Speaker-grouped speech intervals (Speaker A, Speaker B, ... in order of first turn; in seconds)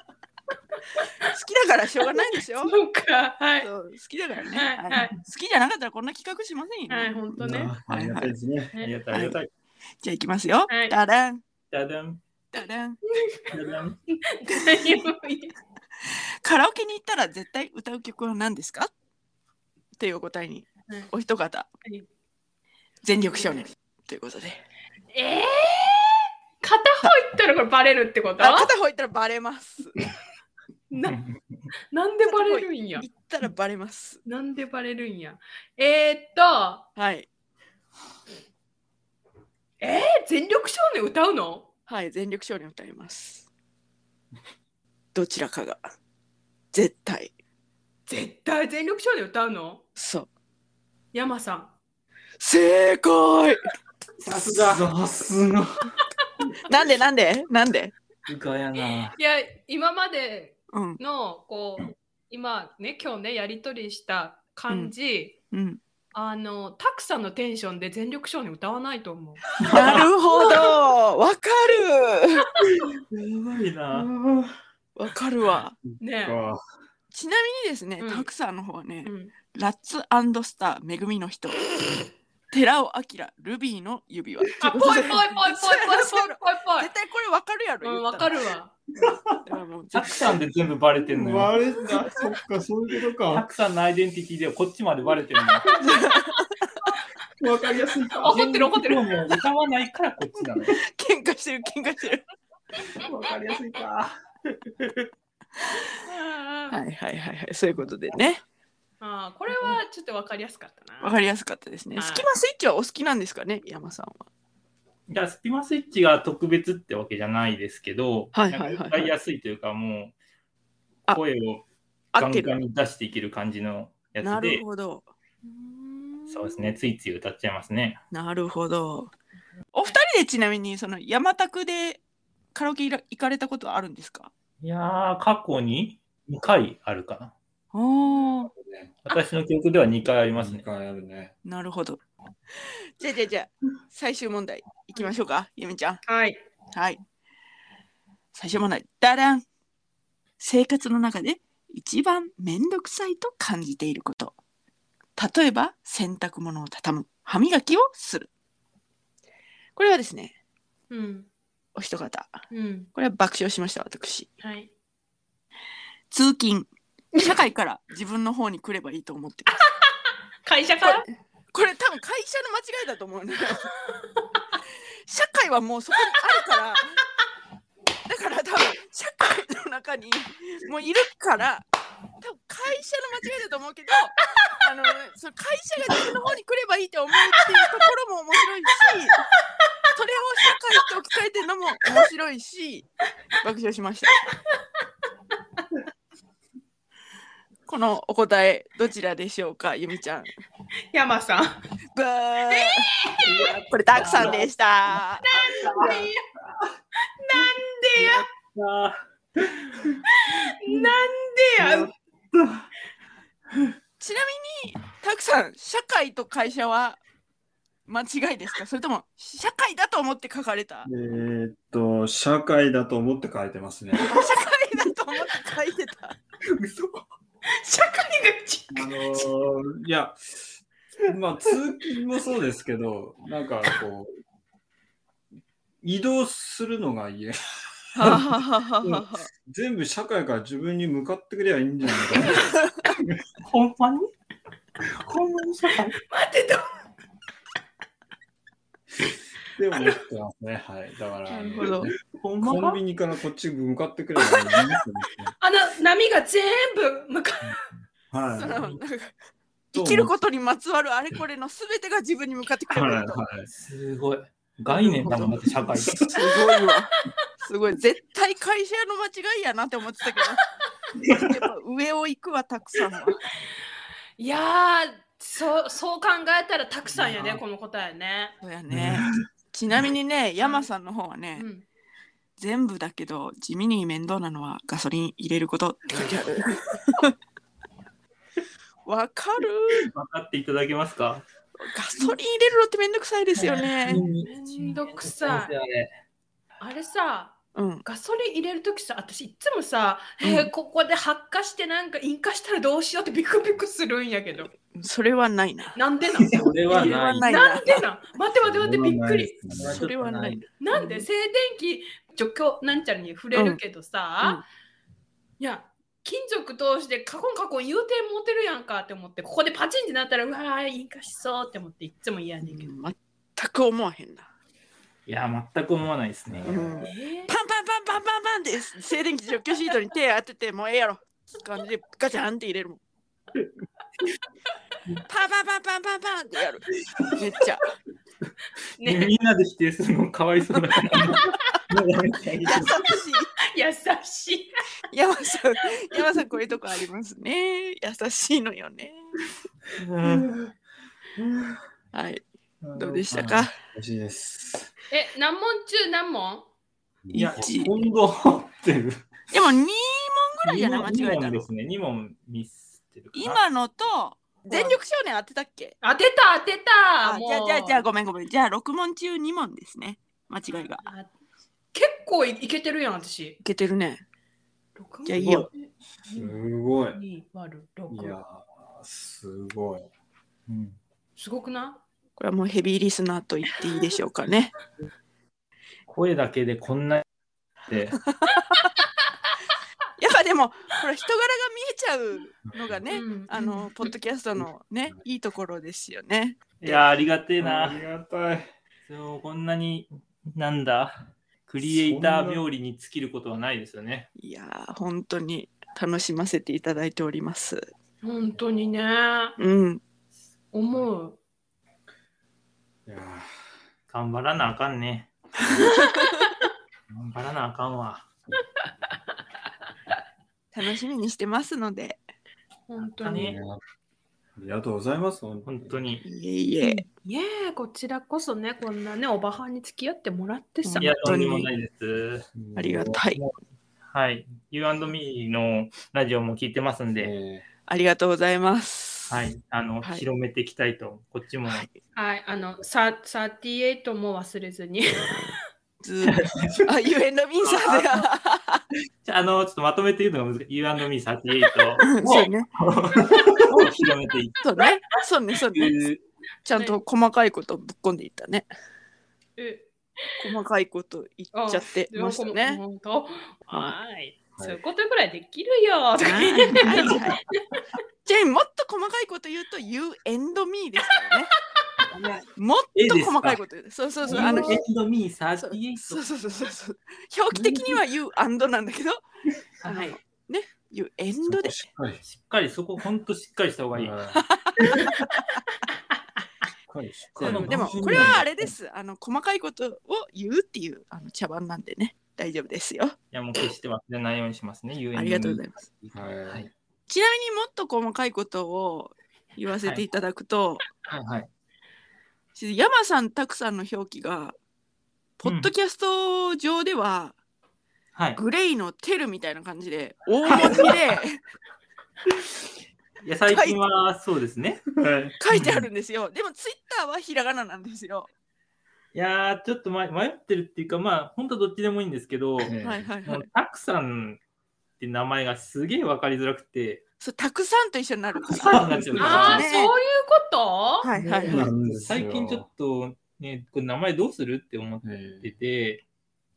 Speaker A: 1.3-2.8, 3.6-8.3, 9.1-9.4, 10.0-11.4, 12.5-13.0, 16.4-18.9, 20.0-21.7, 23.0-24.6, 28.4-30.0, 32.2-34.2, 37.0-37.3, 41.9-43.5, 45.1-45.9, 46.7-47.3, 50.0-50.3, 52.4-53.7, 56.7-57.9, 60.7-61.0, 65.5-65.8, 69.6-72.5, 74.9-75.8, 77.1-81.7, 82.5-88.4, 89.4-90.3, 95.8-96.5, 100.8-102.2, 106.7-108.4, 111.0-114.2, 118.3-119.1, 122.1-122.5, 124.2-125.1, 128.1-129.1, 129.7-132.0, 132.5-134.3, 137.7-138.5, 141.4-142.0, 142.6-146.0, 146.7-147.0, 148.3-149.4, 150.4-154.3, 155.2-158.3, 159.8-160.3, 161.7-162.4, 162.9-164.3, 166.1-169.6, 170.8-173.7, 175.1-177.0, 178.1-181.6, 182.2-189.2, 189.9-192.8, 193.4-194.2, 197.7-200.3, 201.9-202.9, 203.5-205.2, 214.0-217.0, 217.9-220.9, 224.0-226.2, 237.9-239.3, 251.3-251.9, 258.3-259.1, 259.7-263.2, 264.8-265.1, 266.1-266.9, 267.4-270.4, 271.1-273.2, 278.4-281.4, 282.4-287.1, 288.8-289.9, 291.6-294.0, 297.5-297.8, 300.2-300.5, 304.7-305.8, 306.7-307.8, 309.7-311.0, 313.3-313.6, 322.4-324.3, 326.4-332.8, 335.1-337.7, 342.4-343.3, 344.9-349.0, 351.9-352.2, 352.8-353.5, 357.1-357.7, 359.3-361.4, 363.1-365.8, 367.0-370.8, 373.4-374.0, 375.0-375.5, 382.2-384.5, 390.0-396.8, 404.2-407.7, 409.4-409.8, 415.7-416.2, 420.5-422.0, 426.0-426.8, 430.6-431.5, 432.5-433.2, 437.7-439.2, 445.8-448.6, 451.8-452.5, 454.4-455.8, 456.4-458.5, 460.2-462.6, 466.0-467.2, 468.0-471.3, 472.3-474.6, 475.4-479.0, 479.6-481.6, 484.1-484.9, 487.2-492.9, 494.9-495.6, 496.9-500.6, 502.3-504.4, 505.2-507.1, 508.1-511.2, 513.3-513.6, 515.2-518.1, 522.6-523.3, 527.0-529.7, 530.8-531.5
Speaker B: 2.6-3.7, 4.5-5.1, 6.9-7.7, 10.7-10.9, 13.2-13.5, 14.2-15.5, 23.3-23.6, 25.1-28.7, 30.9-31.2, 31.9-33.0, 34.2-36.9, 39.8-41.7, 48.1-49.8, 51.1-51.7, 59.1-65.3, 66.1-69.6, 70.3-70.7, 76.0-76.4, 78.0-78.3, 79.0-79.3, 84.6-86.9, 87.8-88.7, 91.8-92.2, 95.7-96.1, 98.1-99.1, 106.0-106.8, 109.0-111.2, 112.0-112.3, 125.5-126.3, 146.0-146.4, 160.9-161.3, 162.5-162.9, 164.4-164.7, 170.4-171.1, 189.1-189.6, 200.9-201.6, 202.5-203.5, 205.2-206.2, 207.2-208.2, 210.2-211.9, 227.5-229.3, 246.1-246.8, 255.4-257.6, 266.2-267.1, 274.2-278.4, 280.4-280.7, 281.4-281.6, 293.4-295.5, 296.6-304.5, 305.8-309.4, 310.6-314.4, 315.4-322.7, 326.8-327.3, 338.8-339.1, 343.5-344.5, 354.9-356.5, 364.5-364.8, 365.8-367.8, 370.9-371.1, 371.7-373.4, 374.8-376.4, 376.9-378.2, 381.2-381.8, 392.9-393.9, 408.0-409.4, 410.5-411.2, 415.9-416.3, 422.7-423.4, 426.6-430.9, 441.9-445.3, 459.4-460.2, 461.3-467.2, 474.2-474.4, 479.7-480.0, 529.0-530.9
Speaker C: 7.4-8.7, 54.6-55.9, 75.8-76.6, 91.1-93.4, 97.4-98.5, 103.0-104.1, 138.5-138.9, 140.3-141.3, 211.6-212.6, 220.8-224.2, 228.7-230.6, 231.1-234.1, 235.8-238.3, 238.9-243.2, 249.6-255.3, 258.1-258.6, 259.7-260.1, 262.7-263.5, 265.0-266.1, 278.7-279.0, 308.4-309.8, 326.3-326.6, 353.7-354.7, 357.1-359.1, 376.1-377.0, 377.9-379.9, 397.4-398.5, 401.6-402.4, 412.9-413.3, 423.1-423.6, 424.4-425.8, 432.3-433.0, 436.9-437.4, 474.1-474.4, 481.2-482.0, 483.7-484.2, 486.7-488.5, 495.9-496.5, 514.8-515.1, 522.4-522.9, 528.5-529.4, 531.1-532.5, 534.8-535.3
Speaker D: 8.8-9.5, 11.7-12.2, 13.5-14.0, 31.1-31.3, 54.2-54.9, 58.3-59.1, 72.8-74.1, 89.9-91.5, 93.3-95.6, 98.2-100.7, 115.1-120.1, 121.1-121.6, 122.2-124.6, 126.3-128.0, 134.6-137.3, 139.1-140.6, 203.2-204.5, 205.7-206.0, 208.0-210.0, 226.6-227.0, 243.4-244.1, 244.8-245.9, 252.1-252.8, 263.5-266.0, 276.9-277.4, 285.9-286.4, 289.8-291.2, 293.9-295.9, 306.3-307.2, 309.6-310.4, 325.1-326.6, 338.8-342.8, 349.8-350.5, 351.2-351.6, 352.6-353.5, 357.1-357.5, 360.4-363.4, 380.5-380.8, 385.9-387.0, 387.6-388.0, 396.6-397.8, 398.9-404.1, 413.9-415.1, 416.9-418.1, 423.0-423.4, 425.4-426.0, 430.8-432.3, 433.9-437.1, 439.1-441.7, 446.1-446.6, 447.4-448.0, 449.0-454.4, 455.5-456.0, 472.7-473.4, 474.0-476.0, 482.0-483.9, 487.2-488.2, 493.1-496.5, 500.9-501.3, 505.2-505.5, 507.9-508.2, 513.0-514.6, 515.3-515.7, 518.9-522.5, 523.0-524.2, 524.8-526.8, 528.3-529.5, 531.0-535.8